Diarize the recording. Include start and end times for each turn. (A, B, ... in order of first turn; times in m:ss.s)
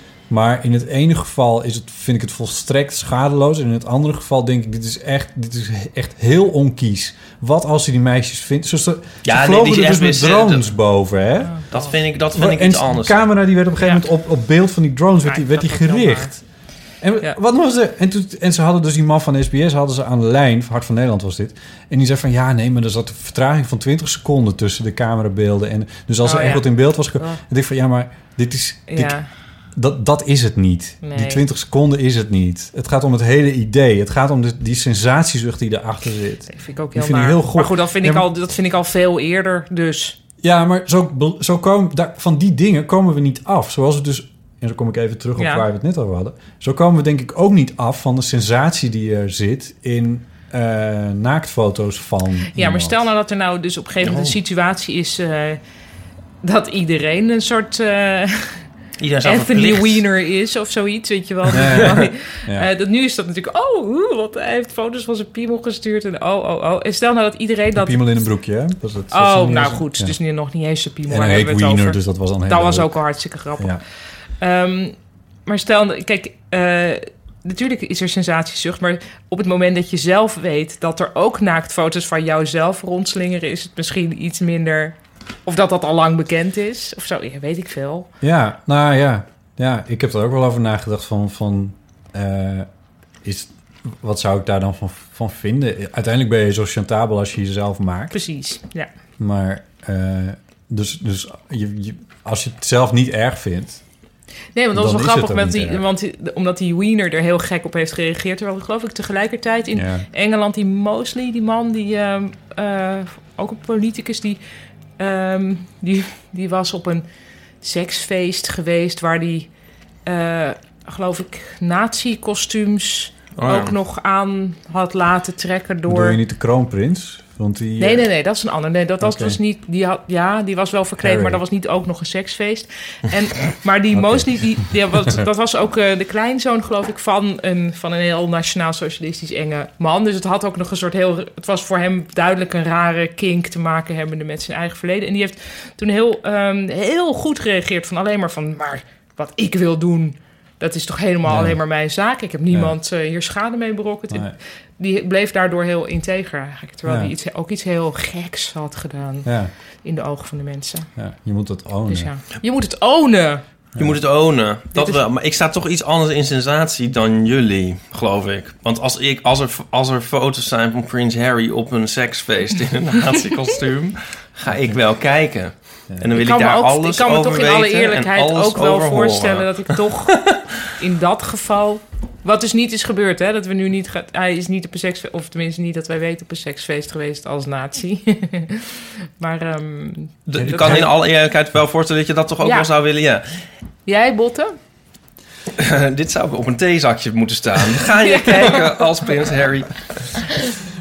0:00.3-0:11.6 A
0:09.2-0:10.7 B
0:11.4-0:11.9 C
0:11.7-0:13.2 B
0:12.3-0:16.4 A
0:15.2-0:16.3 C
0:17.0-0:29.2 A
0:26.2-0:27.4 C
0:28.9-0:29.3 C
0:29.7-0:38.3 A
0:31.0-0:31.4 C
0:36.5-0:40.2 C
0:40.4-0:53.0 A
0:45.4-0:45.6 C
0:52.6-0:55.6 C
0:54.0-0:54.4 B
0:56.4-0:58.6 C
0:59.0-1:00.0 B
0:59.2-1:08.0 C
1:01.5-1:02.7 A
1:07.8-1:10.2 A
1:09.1-1:13.8 C
1:11.1-1:13.0 A
1:13.6-1:13.8 A
1:14.4-1:28.1 C
1:28.2-1:32.7 A
1:33.2-1:38.2 A
1:38.1-1:38.9 C
1:39.2-1:43.8 A
1:44.6-1:54.4 C
1:44.7-1:45.8 A
1:49.7-1:50.0 A
1:55.0-1:57.0 C
1:57.6-1:59.5 C
2:00.0-2:06.2 C
2:03.4-2:03.7 B
2:05.8-2:08.1 A
2:07.8-2:39.3 C
2:09.0-2:09.4 A
2:11.0-2:11.4 A
2:13.9-2:14.4 A
2:31.3-2:31.6 A
2:34.1-2:34.4 A
2:36.8-2:37.1 A
2:39.2-2:39.5 A
2:39.8-2:40.9 C
2:41.0-2:42.1 A
2:41.9-2:43.4 C
2:43.8-3:00.4 B
2:44.7-2:45.0 C
2:56.1-3:10.9 C
3:10.3-3:13.2 B
3:10.3-3:10.9 A
3:12.4-3:12.7 C
3:13.8-3:14.6 C
3:15.6-3:20.1 B
3:18.0-3:18.9 C